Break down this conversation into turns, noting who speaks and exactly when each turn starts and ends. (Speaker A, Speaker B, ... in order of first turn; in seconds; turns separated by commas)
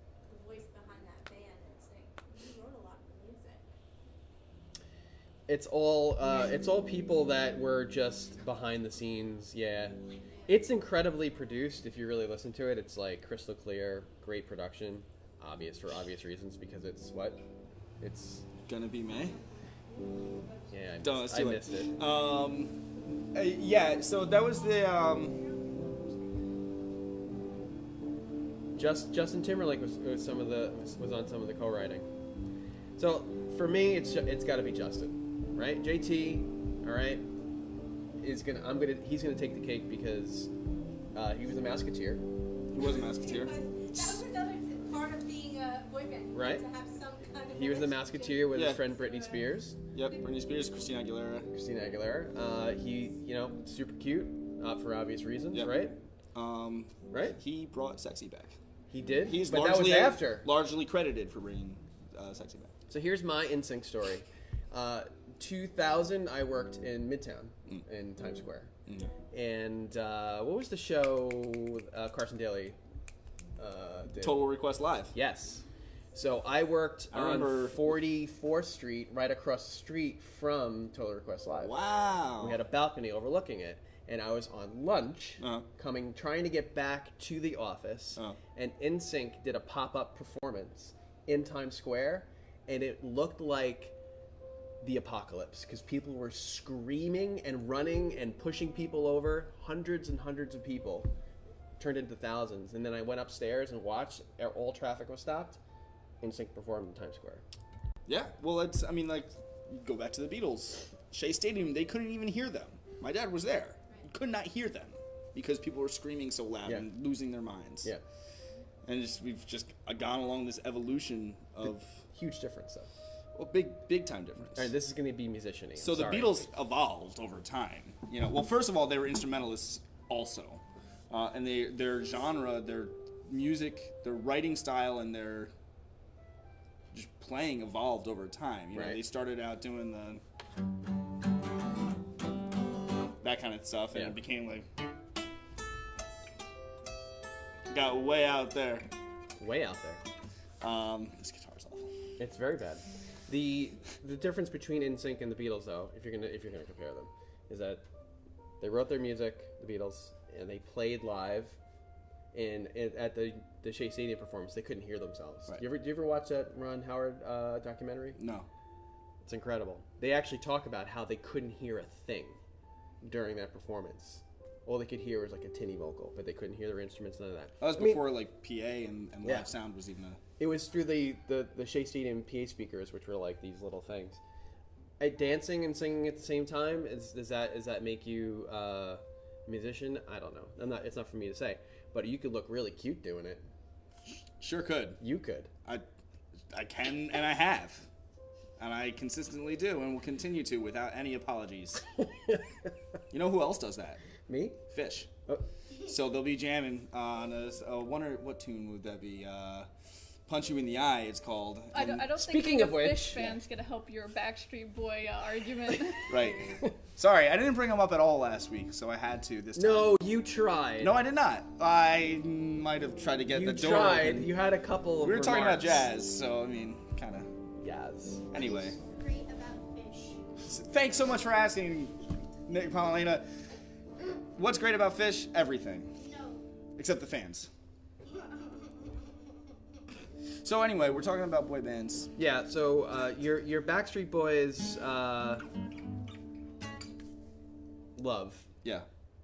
Speaker A: 0.2-3.6, Speaker B: 5.5-17.4, Speaker A: 10.2-10.6, Speaker B: 18.0-18.4, Speaker C: 18.7-19.4, Speaker A: 19.0-20.7, Speaker B: 20.7-21.9, Speaker C: 21.0-25.4, Speaker A: 24.6-26.3, Speaker B: 28.8-32.1, Speaker B: 33.0-37.2, Speaker B: 38.2-40.5, Speaker B: 41.1-42.2, Speaker C: 42.7-44.2, Speaker A: 42.7-50.1, Speaker B: 46.3-46.6, Speaker B: 47.5-49.8, Speaker C: 48.5-48.8, Speaker C: 49.9-51.5, Speaker B: 51.5-56.0, Speaker C: 55.5-58.6, Speaker B: 57.1-57.4, Speaker B: 58.9-60.5, Speaker C: 59.2-62.7, Speaker B: 62.9-68.7, Speaker B: 69.3-72.8, Speaker B: 73.6-74.5, Speaker C: 74.2-75.1, Speaker B: 75.1-81.7, Speaker C: 77.1-78.0, Speaker C: 81.6-82.6, Speaker B: 82.4-93.9, Speaker C: 85.4-85.7, Speaker B: 94.8-101.1, Speaker B: 101.8-105.6, Speaker B: 106.2-107.4, Speaker C: 108.0-117.9, Speaker C: 118.8-122.0, Speaker B: 122.1-122.9, Speaker C: 123.3-124.7, Speaker B: 124.5-126.5, Speaker C: 125.8-135.5, Speaker C: 136.9-140.2, Speaker B: 138.7-139.0, Speaker C: 143.2-144.7, Speaker C: 147.7-148.9, Speaker B: 149.4-150.0, Speaker C: 150.6-152.0, Speaker B: 152.2-157.8, Speaker B: 158.6-161.6, Speaker B: 162.3-168.2, Speaker C: 168.2-168.5, Speaker B: 169.2-172.4, Speaker B: 173.0-178.1, Speaker C: 177.6-180.2, Speaker B: 179.2-179.5, Speaker B: 180.4-184.2, Speaker B: 185.0-193.4, Speaker C: 194.4-195.0, Speaker B: 195.0-195.5, Speaker C: 196.5-197.9, Speaker C: 198.6-201.8, Speaker C: 203.1-204.0, Speaker B: 204.3-204.6, Speaker C: 204.7-205.1, Speaker C: 205.8-209.7, Speaker C: 210.3-212.2, Speaker D: 211.7-216.1, Speaker B: 212.2-213.3, Speaker C: 216.1-220.0, Speaker B: 219.5-220.9, Speaker C: 220.8-224.4, Speaker B: 223.3-225.9, Speaker C: 225.0-227.3, Speaker B: 227.6-228.3, Speaker C: 228.3-228.8, Speaker E: 228.3-230.2, Speaker C: 230.4-233.2, Speaker C: 234.3-236.0, Speaker E: 236.0-236.4, Speaker C: 236.8-237.5, Speaker C: 240.4-242.1, Speaker B: 242.2-245.4, Speaker B: 247.9-248.5